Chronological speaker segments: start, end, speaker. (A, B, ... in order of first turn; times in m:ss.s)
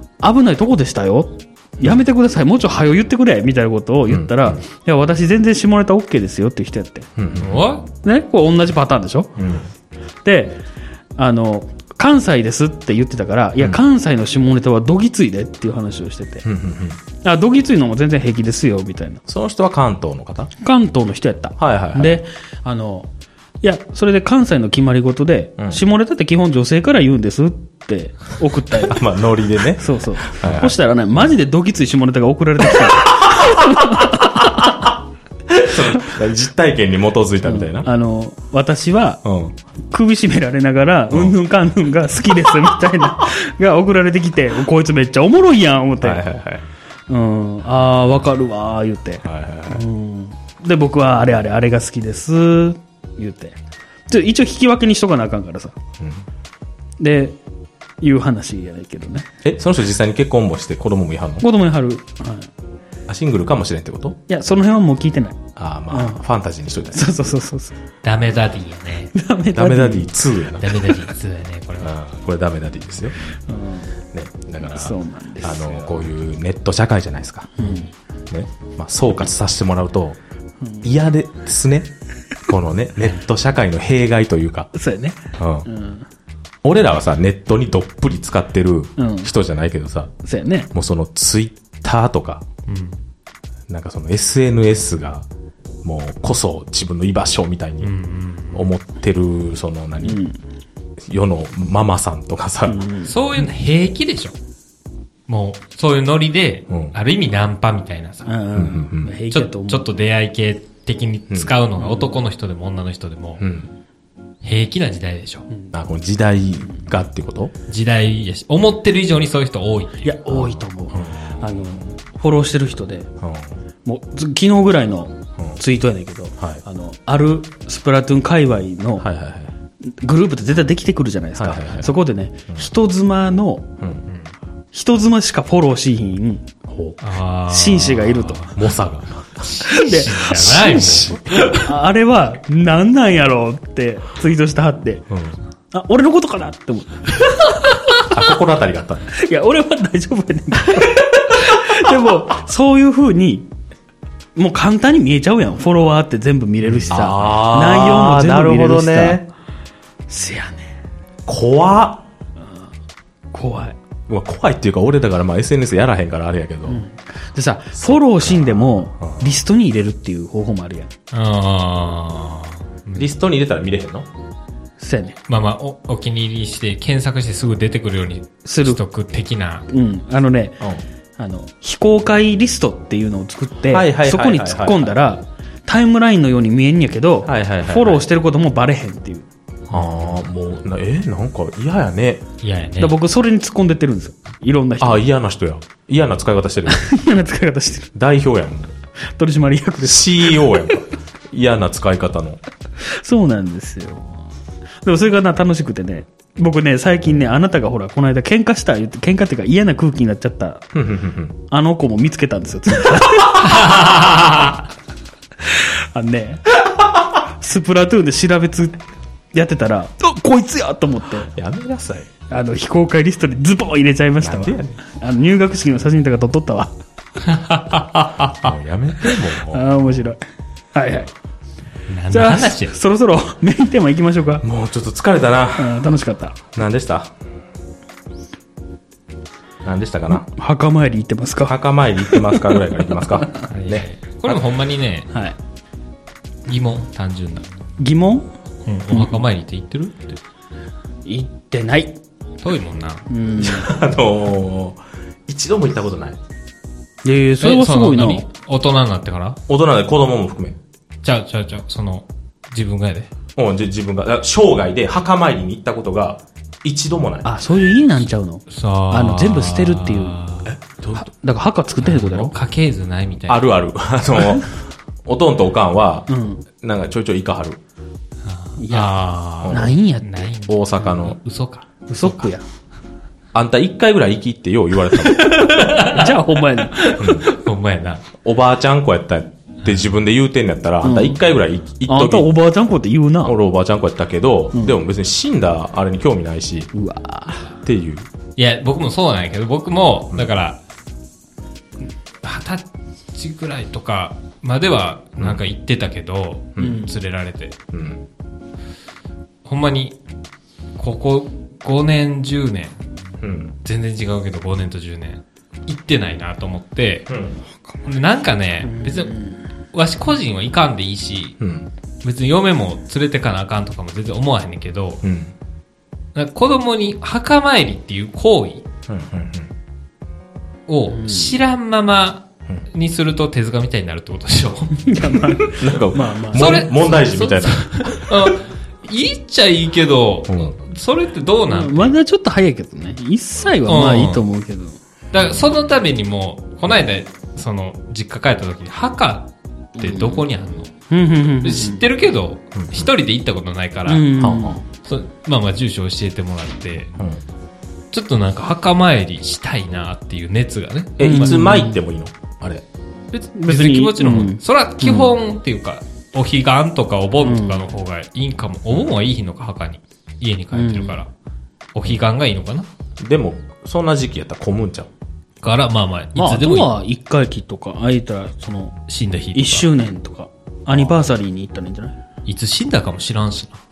0:00.2-0:07.1 A
0:04.1-0:04.6 B
0:07.2-0:07.6 B
0:07.4-0:07.9 C
0:08.0-0:09.3 A
0:09.4-0:09.7 B
0:10.2-0:10.6 A
0:11.2-0:16.4 A
0:16.4-0:17.0 B
0:17.2-0:19.2 A
0:19.2-0:20.5 B
0:20.6-0:23.1 A
0:21.6-0:22.2 B
0:23.6-0:29.0 A
0:28.8-0:30.7 B
0:29.7-0:34.7 A
0:33.6-0:34.8 B
0:35.5-0:37.9 B
0:37.4-0:39.2 A
0:39.2-0:39.5 B
0:39.9-0:46.2 A
0:46.0-0:46.6 B
0:47.1-0:55.8 A
0:49.2-0:49.8 B
0:56.0-0:56.2 B
0:57.0-0:57.4 A
0:58.0-0:59.3 A
0:59.4-1:01.5 B
1:01.4-1:02.5 A
1:03.1-1:04.2 B
1:04.3-1:05.4 A
1:05.6-1:07.0 B
1:05.9-1:06.2 A
1:06.9-1:07.8 A
1:08.0-1:09.1 C
1:09.1-1:10.1 A
1:09.5-1:10.9 B
1:10.6-1:11.9 C
1:11.8-1:13.1 B
1:13.5-1:13.9 A
1:14.1-1:17.7 B
1:14.6-1:16.0 A
1:17.6-1:17.9 A
1:18.3-1:20.2 B
1:20.6-1:20.9 A
1:20.8-1:21.9 B
1:22.5-1:24.7 B
1:24.7-1:26.1 A
1:25.4-1:25.7 B
1:26.6-1:30.1 B
1:29.0-1:29.3 A
1:30.2-1:30.7 A
1:30.7-1:32.4 B
1:32.6-1:33.0 C
1:33.7-1:35.2 B
1:35.8-1:37.9 B
1:37.8-1:38.7 C
1:38.5-1:40.2 B
1:40.0-1:40.4 A
1:41.0-1:42.8 B
1:42.6-1:43.1 A
1:43.0-1:44.4 C
1:45.3-1:48.4 C
1:46.7-1:47.0 B
1:48.2-1:49.9 A
1:48.5-1:49.1 B
1:49.3-1:53.4 C
1:53.4-1:53.7 B
1:54.4-1:55.5 C
1:55.7-1:57.5 B
1:57.7-2:00.2 C
2:00.0-2:03.1 A
2:00.3-2:01.3 B
2:03.2-2:03.5 B
2:03.8-2:09.0 A
2:09.0-2:09.5 B
2:09.8-2:13.7 A
2:11.4-2:11.9 B
2:14.1-2:14.3 C
2:14.7-2:16.5 A
2:16.7-2:17.0 B
2:17.0-2:18.5 C
2:17.5-2:18.5 A
2:18.5-2:19.6 B
2:19.4-2:21.7 C
2:19.6-2:20.6 A
2:20.3-2:21.6 B
2:21.5-2:25.0 A
2:25.1-2:25.4 B
2:25.7-2:28.1 A
2:28.0-2:29.1 B
2:29.1-2:33.5 A
2:34.4-2:39.2 A
2:36.7-2:37.1 C
2:36.9-2:39.2 B
2:40.1-2:40.8 A
2:41.3-2:42.0 B
2:42.4-2:42.7 A
2:43.3-2:43.8 A
2:44.1-2:46.8 B
2:46.7-2:50.9 A
2:47.8-2:49.3 B
2:51.1-2:53.1 C
2:53.0-2:54.1 B
2:54.8-2:55.2 A
2:55.3-2:59.7 C
2:58.4-2:58.8 A
2:59.7-3:00.6 A
3:01.2-3:09.3 A
3:03.7-3:04.9 B
3:07.2-3:08.0 B
3:09.7-3:12.2 B
3:09.7-3:10.1 C
3:12.4-3:13.0 C
3:12.8-3:15.0 A
3:14.8-3:16.9 B
3:16.7-3:17.9 A
3:17.9-3:18.7 B
3:19.0-3:20.8 A
3:19.8-3:22.4 B
3:22.8-3:24.2 A
3:24.8-3:30.7 A
3:30.7-3:31.4 B
3:31.5-3:33.8 A
3:33.4-3:34.6 C
3:35.4-3:41.3 A
3:41.3-3:42.1 B
3:42.3-3:46.7 A
3:44.2-3:44.8 B
3:47.2-3:48.5 C
3:48.3-3:49.7 B
3:49.3-3:50.2 A
3:50.7-3:51.1 A
3:51.9-3:52.7 C
3:52.1-3:54.4 A
3:54.4-3:55.8 B
3:55.6-3:56.4 A
3:56.5-3:57.1 B
3:59.6-4:00.3 B
4:00.1-4:03.4 A
4:01.4-4:04.4 B
4:03.5-4:05.1 C
4:05.1-4:05.4 A
4:06.5-4:07.5 C
4:07.8-4:08.3 A
4:08.6-4:10.2 C
4:08.9-4:09.2 A
4:11.0-4:12.0 A
4:12.4-4:13.1 C
4:13.1-4:13.7 A
4:13.4-4:16.2 B
4:17.0-4:18.2 A
4:17.4-4:19.4 C
4:19.5-4:20.6 B
4:21.0-4:23.1 C
4:23.4-4:27.4 B
4:27.2-4:30.2 A
4:28.5-4:30.5 C
4:30.5-4:31.1 B
4:31.0-4:32.3 A
4:31.8-4:33.5 C
4:33.3-4:36.1 B
4:36.1-4:36.4 A
4:36.6-4:37.6 B
4:38.2-4:42.3 C
4:38.6-4:40.3 A
4:39.4-4:39.7 B
4:40.4-4:41.2 B
4:41.9-4:42.4 A
4:43.3-4:45.7 B
4:45.0-4:48.0 C
4:45.8-4:47.0 A
4:47.0-4:47.3 B
4:48.2-4:52.3 B
4:50.8-4:51.2 A
4:51.9-4:53.3 A
4:53.2-4:56.7 B
4:54.5-4:54.8 A
4:56.7-4:57.5 A
4:57.6-4:58.0 B
4:58.4-5:00.6 C
5:02.2-5:07.6 C
5:06.6-5:06.8 B
5:06.6-5:06.9 A
5:07.7-5:08.0 B
5:09.4-5:10.0 C
5:10.8-5:12.8 C
5:13.2-5:13.5 B
5:13.6-5:17.1 C
5:17.1-5:17.4 B
5:17.8-5:21.4 C
5:18.6-5:19.4 A
5:21.4-5:21.7 B
5:22.0-5:25.0 C
5:25.0-5:25.3 B
5:26.1-5:28.6 C
5:28.9-5:29.5 B
5:30.7-5:34.9 C
5:30.9-5:31.4 A
5:34.8-5:36.6 A
5:35.4-5:38.3 B
5:36.3-5:41.9 C
5:40.3-5:40.6 B
5:41.5-5:44.8 A
5:43.6-5:44.2 C
5:45.1-5:50.7 C
5:49.8-5:50.2 A
5:50.9-5:51.8 A
5:51.4-5:54.2 C
5:52.6-5:52.9 B
5:53.9-5:54.6 A
5:54.2-5:54.6 B
5:54.8-5:56.9 C
5:57.9-6:01.2 C
6:01.0-6:02.6 B
6:01.0-6:01.8 A
6:03.1-6:11.1 C
6:03.3-6:05.1 A
6:07.2-6:07.7 A
6:10.5-6:11.0 A
6:11.7-6:12.7 C
6:13.0-6:14.9 B
6:15.4-6:16.7 C
6:16.1-6:18.8 A
6:18.9-6:19.7 C
6:19.3-6:22.0 A
6:20.7-6:21.0 B
6:22.2-6:23.6 C